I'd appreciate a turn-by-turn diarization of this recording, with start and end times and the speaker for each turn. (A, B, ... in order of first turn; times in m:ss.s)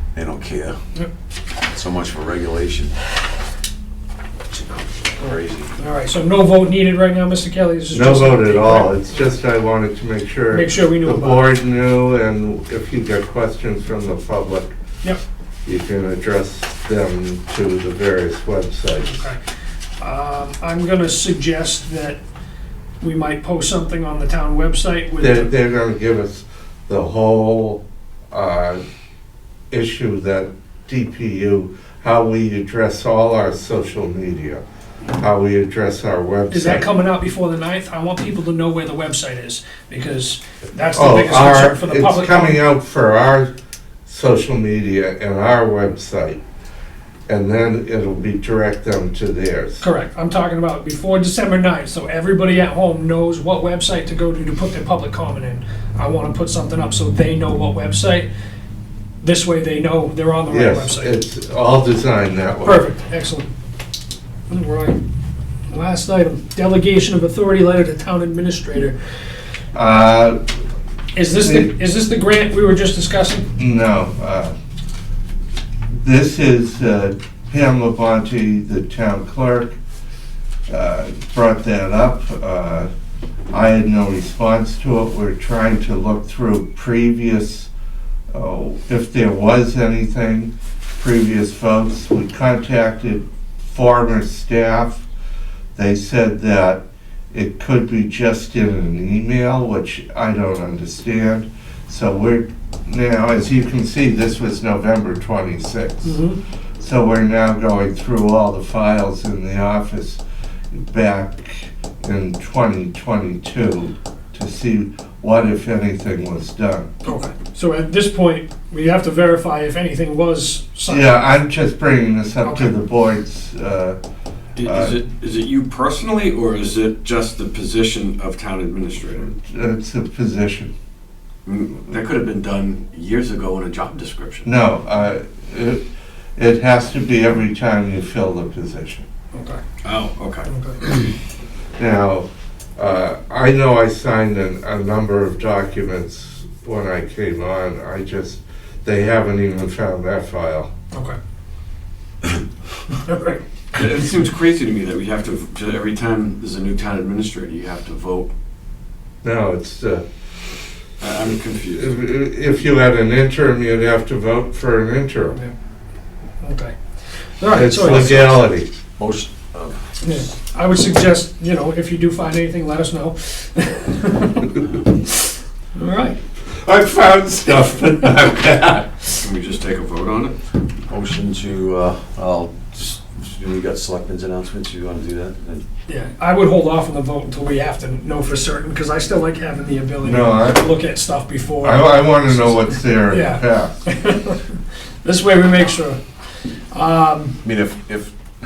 0:00.1-0:00.7 A
0:01.7-0:02.9 A
0:05.2-0:05.7 A
0:05.8-0:09.1 B
0:07.9-0:14.7 C
0:10.5-0:11.5 B
0:15.6-0:19.2 C
0:19.0-0:19.4 B
0:20.0-0:22.2 B
0:23.0-0:25.5 B
0:25.2-0:28.8 C
0:29.7-0:34.6 C
0:35.1-0:36.8 C
0:36.5-0:42.6 B
0:40.9-0:43.5 C
0:44.1-0:46.4 C
0:47.3-0:49.8 C
0:49.8-0:58.3 B
0:59.2-1:01.1 B
1:00.5-1:02.8 C
1:02.6-1:03.5 B
1:04.5-1:05.0 B
1:05.7-1:08.9 B
1:09.7-1:10.4 C
1:11.1-1:13.5 B
1:11.4-1:11.7 C
1:13.6-1:14.5 C
1:16.0-1:19.8 C
1:20.7-1:22.9 C
1:23.5-1:27.7 C
1:28.3-1:35.0 C
1:35.7-1:46.2 C
1:46.0-1:46.4 B
1:46.8-1:50.2 C
1:50.7-1:56.9 C
1:57.0-2:01.2 B
2:00.9-2:04.0 C
2:02.4-2:02.7 B
2:04.6-2:09.3 D
2:04.6-2:05.0 C
2:09.4-2:10.7 C
2:11.4-2:14.5 D
2:14.4-2:15.8 C
2:16.4-2:19.0 C
2:19.3-2:19.6 B
2:19.8-2:21.1 D
2:20.5-2:20.8 B
2:21.8-2:30.7 C
2:30.9-2:31.2 B
2:32.9-2:33.4 B
2:33.7-2:38.3 D
2:39.2-2:40.0 C
2:41.0-2:41.9 D
2:41.7-2:45.4 C
2:46.4-2:46.7 B
2:47.4-2:48.2 B
2:47.5-2:48.7 C
2:47.8-2:48.4 A
2:49.0-2:50.2 A
2:50.0-2:54.6 B
2:55.1-2:56.2 B
2:56.5-2:58.9 C
2:59.2-3:00.3 D
3:00.9-3:05.6 A
3:05.9-3:14.4 B
3:10.0-3:10.6 C
3:11.6-3:13.8 C
3:15.0-3:16.0 B
3:16.7-3:17.4 B
3:17.4-3:18.1 A